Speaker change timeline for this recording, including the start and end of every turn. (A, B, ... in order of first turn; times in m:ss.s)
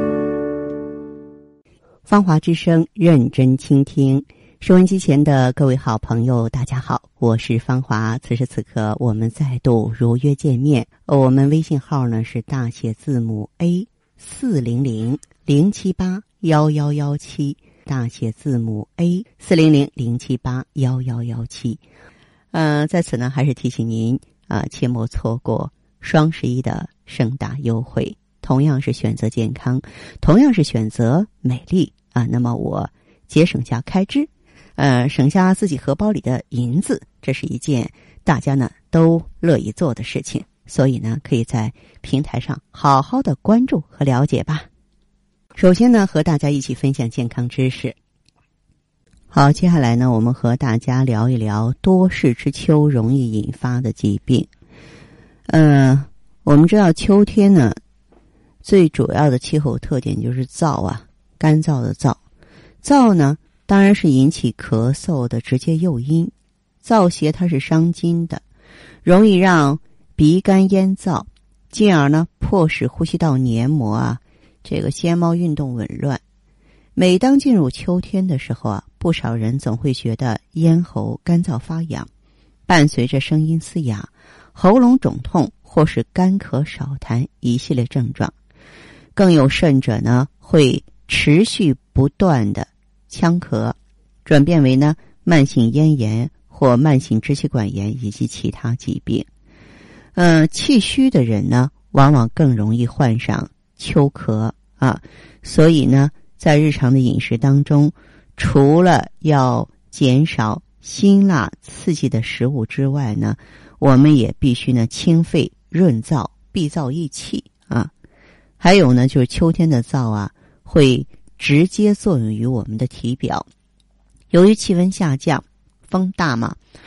0:02.1-0:21.8 A
0:22.5-0:44.7 A
0:45.6-0:48.0 A
0:49.3-0:54.5 A
0:55.5-0:57.8 A
0:58.6-1:02.2 A
1:02.8-1:08.4 A
1:09.0-1:16.2 A
1:17.0-1:22.1 A
1:22.7-1:28.3 A
1:29.1-1:39.3 A
1:40.2-1:57.9 A
1:58.6-2:03.5 A
2:04.3-2:06.6 A